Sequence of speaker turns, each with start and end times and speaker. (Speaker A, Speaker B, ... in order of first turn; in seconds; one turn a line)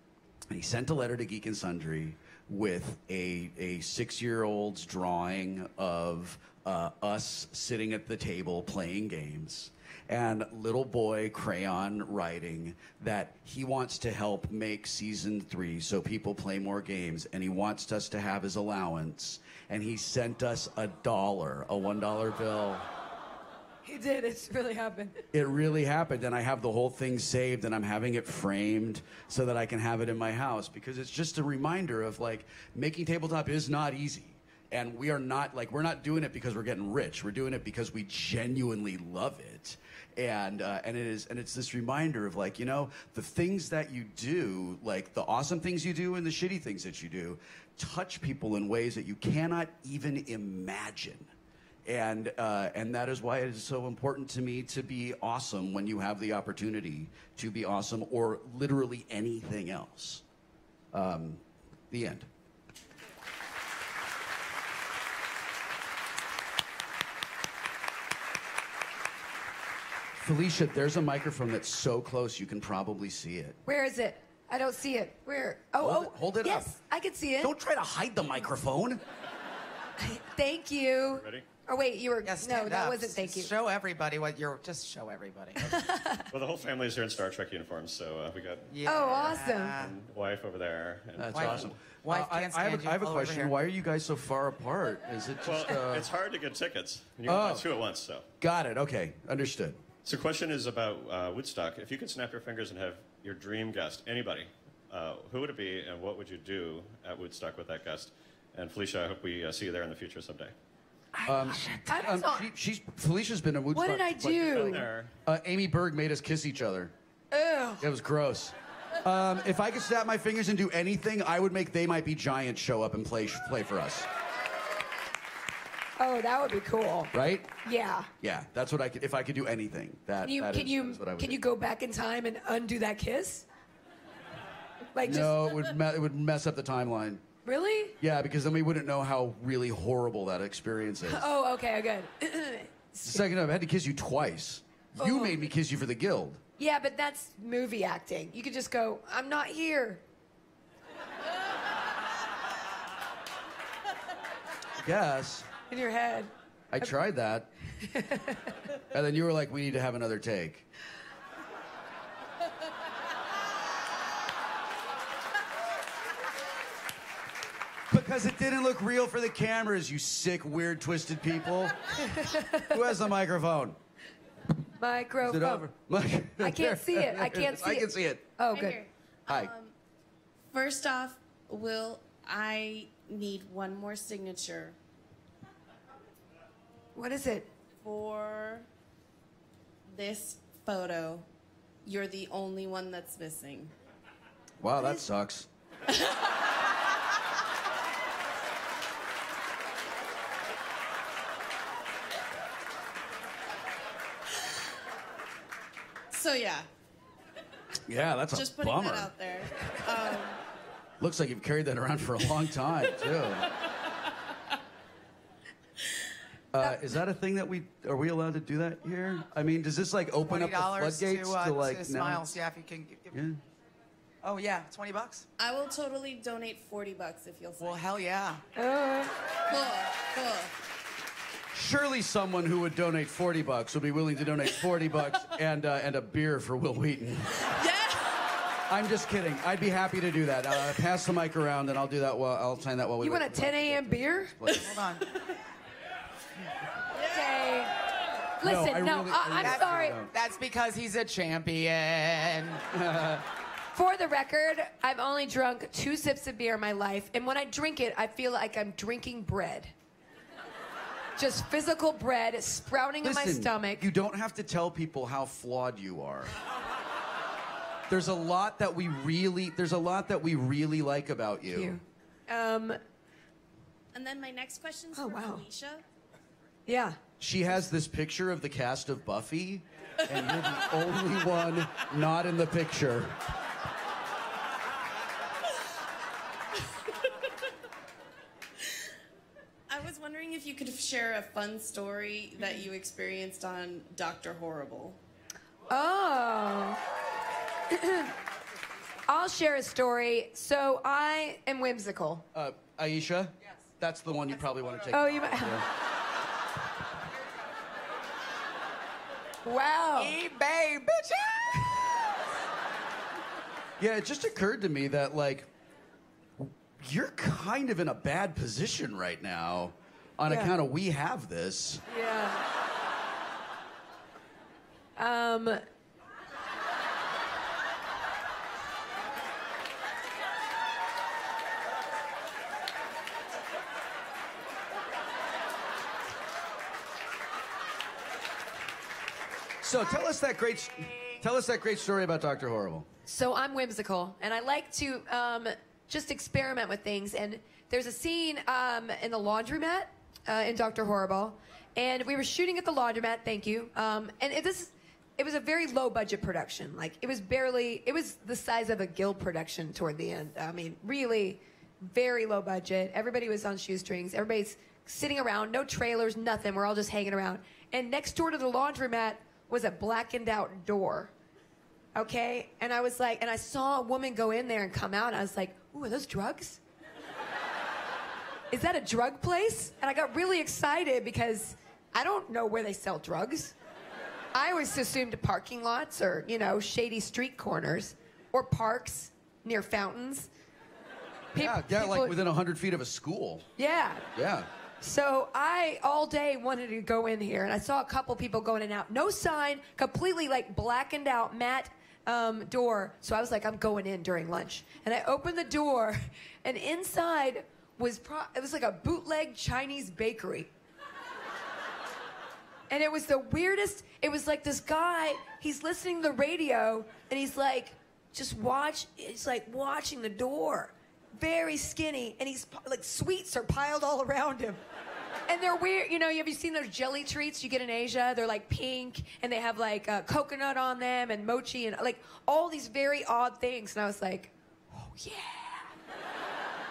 Speaker A: 0.5-22.9
Speaker B: 23.9-25.2
Speaker A: 25.3-51.3
Speaker A: 51.9-60.2
Speaker A: 60.9-62.3
Speaker A: 70.2-73.6
Speaker B: 73.7-77.5
Speaker A: 75.8-76.7
Speaker A: 77.4-79.0
Speaker B: 80.0-83.5
Speaker C: 81.1-81.5
Speaker D: 82.2-85.6
Speaker B: 85.7-86.2
Speaker C: 86.3-91.9
Speaker D: 88.7-90.0
Speaker B: 88.9-89.8
Speaker A: 91.2-96.1
Speaker D: 91.3-93.5
Speaker C: 95.4-98.3
Speaker A: 97.2-97.7
Speaker A: 98.4-99.8
Speaker C: 100.0-110.5
Speaker B: 111.2-112.5
Speaker A: 111.2-116.9
Speaker B: 113.7-114.9
Speaker C: 114.4-115.1
Speaker B: 117.3-117.8
Speaker A: 117.8-124.1
Speaker B: 126.0-128.1
Speaker A: 127.1-127.5
Speaker A: 128.2-131.4
Speaker B: 130.2-133.4
Speaker B: 134.9-135.4
Speaker A: 135.0-137.2
Speaker B: 137.4-138.0
Speaker A: 138.0-141.3
Speaker B: 141.1-143.3
Speaker A: 143.0-146.4
Speaker B: 145.0-145.4
Speaker B: 146.6-150.0
Speaker A: 154.8-155.5
Speaker B: 155.7-156.3
Speaker A: 156.7-157.5
Speaker B: 157.8-158.6
Speaker A: 158.9-160.7
Speaker A: 167.9-172.1
Speaker B: 172.0-172.8
Speaker A: 172.7-173.8
Speaker B: 174.8-175.7
Speaker A: 175.2-178.3
Speaker B: 176.4-178.8
Speaker E: 178.5-179.7
Speaker E: 180.5-184.8
Speaker B: 186.9-187.5
Speaker E: 187.8-188.7
Speaker E: 189.9-191.3
Speaker E: 191.8-193.7
Speaker A: 194.6-195.5
Speaker E: 206.1-206.7
Speaker A: 207.9-209.2
Speaker E: 208.3-210.4
Speaker A: 211.0-213.5
Speaker A: 216.5-222.4
Speaker D: 220.2-223.2
Speaker A: 223.1-223.4
Speaker D: 224.2-225.3
Speaker E: 225.4-227.8
Speaker D: 227.6-228.4
Speaker B: 228.6-229.1
Speaker E: 229.5-230.5
Speaker A: 231.5-237.4
Speaker E: 237.4-238.2
Speaker A: 238.7-244.7
Speaker B: 243.0-244.3
Speaker D: 244.5-245.1
Speaker E: 247.0-247.4
Speaker B: 247.1-247.7
Speaker B: 248.4-250.0
Speaker A: 248.4-250.1
Speaker D: 249.4-252.6
Speaker A: 252.7-253.3
Speaker B: 253.7-259.7
Speaker B: 261.2-263.8
Speaker A: 263.0-266.4
Speaker A: 267.9-271.8
Speaker B: 271.5-272.8
Speaker E: 273.9-275.8
Speaker B: 274.9-275.4
Speaker B: 276.7-277.0
Speaker A: 277.2-283.2
Speaker E: 289.7-295.0
Speaker B: 295.7-296.8
Speaker B: 297.7-298.1
Speaker B: 299.1-302.2
Speaker A: 302.3-305.7
Speaker B: 304.9-305.6
Speaker B: 309.4-310.1
Speaker D: 310.0-311.7
Speaker A: 313.8-315.5
Speaker A: 316.4-321.8
Speaker B: 320.3-320.5
Speaker B: 321.9-322.4
Speaker B: 325.0-325.6
Speaker A: 339.6-342.9
Speaker B: 343.1-371.1
Speaker B: 371.9-376.6
Speaker B: 378.5-383.5
Speaker B: 384.3-390.3
Speaker B: 391.3-392.1
Speaker A: 391.4-393.5
Speaker B: 393.6-394.1
Speaker A: 394.1-394.5
Speaker B: 394.8-410.5
Speaker B: 412.7-424.6
Speaker B: 425.3-435.7